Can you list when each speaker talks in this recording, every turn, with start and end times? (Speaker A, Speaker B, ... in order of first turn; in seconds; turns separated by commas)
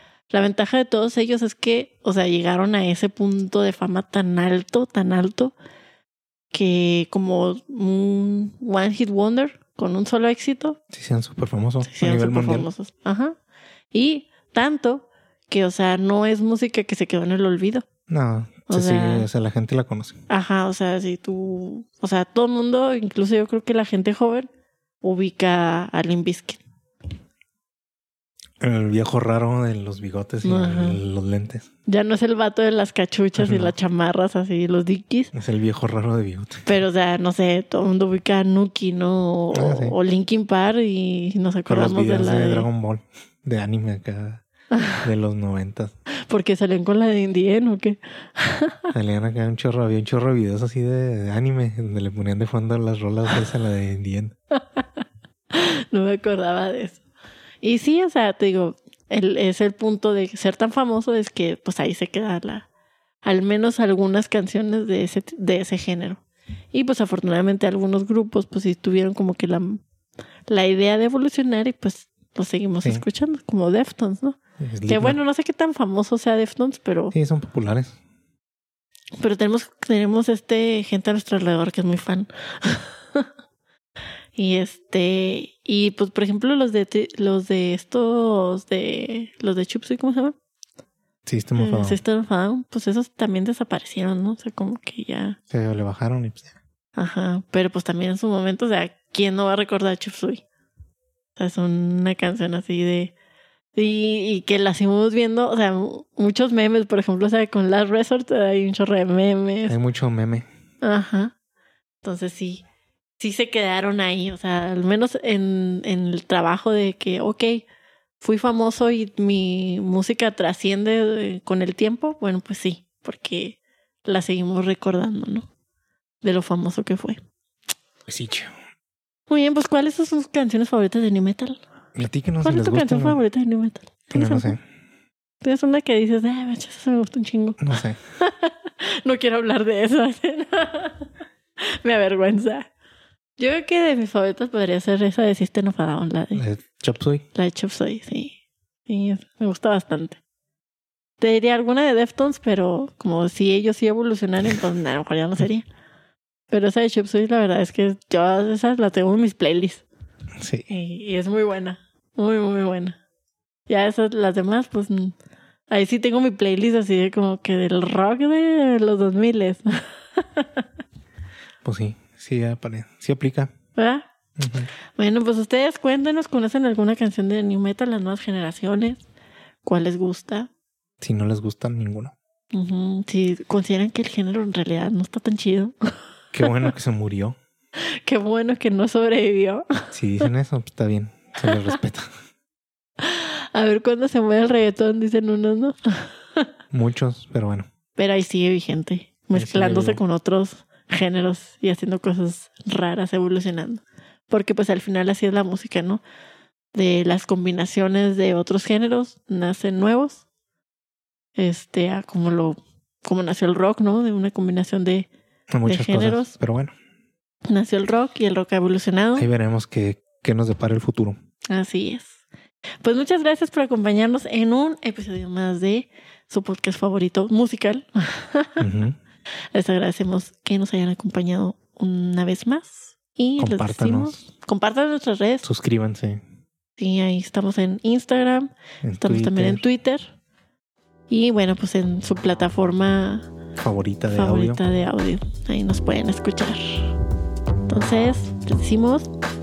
Speaker A: 0.3-5.5, Speaker A: 6.5-10.8, Speaker B: 10.9-12.7, Speaker A: 11.9-13.4, Speaker A: 13.9-17.9, Speaker B: 18.1-20.2, Speaker A: 18.7-19.3, Speaker A: 20.3-24.5, Speaker A: 25.0-26.6, Speaker B: 28.6-31.7, Speaker A: 30.4-31.0, Speaker A: 31.9-35.3, Speaker B: 33.4-33.7, Speaker B: 35.3-36.7, Speaker A: 36.7-42.7, Speaker B: 39.5-40.0, Speaker B: 41.7-44.4, Speaker A: 44.7-45.0, Speaker B: 45.0-46.0, Speaker A: 46.3-48.9, Speaker B: 48.9-54.3, Speaker A: 54.8-57.0, Speaker A: 57.6-62.7, Speaker A: 63.2-66.2, Speaker A: 66.7-69.8, Speaker A: 70.5-77.1, Speaker B: 72.8-73.1, Speaker B: 74.6-75.2, Speaker B: 77.1-78.0, Speaker A: 79.2-83.3, Speaker A: 84.3-90.3, Speaker B: 91.2-92.0, Speaker A: 91.6-95.4, Speaker B: 95.5-96.5, Speaker A: 97.0-100.4, Speaker A: 101.4-103.1, Speaker A: 103.7-109.8, Speaker B: 109.7-110.5, Speaker A: 110.8-111.3, Speaker A: 112.0-112.6, Speaker A: 113.2-117.6, Speaker A: 118.2-125.5, Speaker A: 126.2-127.2, Speaker B: 128.1-128.5, Speaker A: 129.3-131.6, Speaker B: 131.9-133.2, Speaker A: 132.4-134.6, Speaker B: 134.1-134.6, Speaker A: 135.4-137.6, Speaker B: 137.6-138.0, Speaker A: 138.2-141.1, Speaker A: 141.6-142.7, Speaker A: 143.4-146.4, Speaker B: 146.3-147.2, Speaker A: 147.3-148.4, Speaker A: 148.9-150.2, Speaker A: 151.2-155.7, Speaker A: 156.5-159.8, Speaker B: 160.4-160.7, Speaker A: 160.7-163.0, Speaker A: 163.7-165.1, Speaker A: 165.7-170.6, Speaker B: 171.6-173.5, Speaker A: 173.8-174.1, Speaker B: 174.4-174.7, Speaker A: 174.9-179.0, Speaker A: 179.6-180.5, Speaker B: 181.0-182.1, Speaker A: 182.5-185.7, Speaker B: 186.3-187.4, Speaker A: 188.1-189.8, Speaker B: 189.9-192.1, Speaker A: 191.4-191.7, Speaker A: 193.0-196.4, Speaker B: 196.7-197.7, Speaker A: 197.9-206.0, Speaker B: 199.3-200.0, Speaker A: 206.7-210.2, Speaker A: 211.4-215.1, Speaker B: 215.5-216.7, Speaker A: 215.6-216.3, Speaker A: 217.5-219.3, Speaker B: 219.2-221.2, Speaker A: 221.5-222.2, Speaker A: 222.8-228.6, Speaker B: 228.6-229.0, Speaker A: 229.5-235.5, Speaker B: 233.4-234.3, Speaker B: 235.4-236.2, Speaker A: 236.8-238.5, Speaker B: 238.8-239.6, Speaker A: 239.0-240.1, Speaker A: 241.1-243.3, Speaker B: 243.6-244.6, Speaker A: 244.1-246.9, Speaker A: 247.7-249.1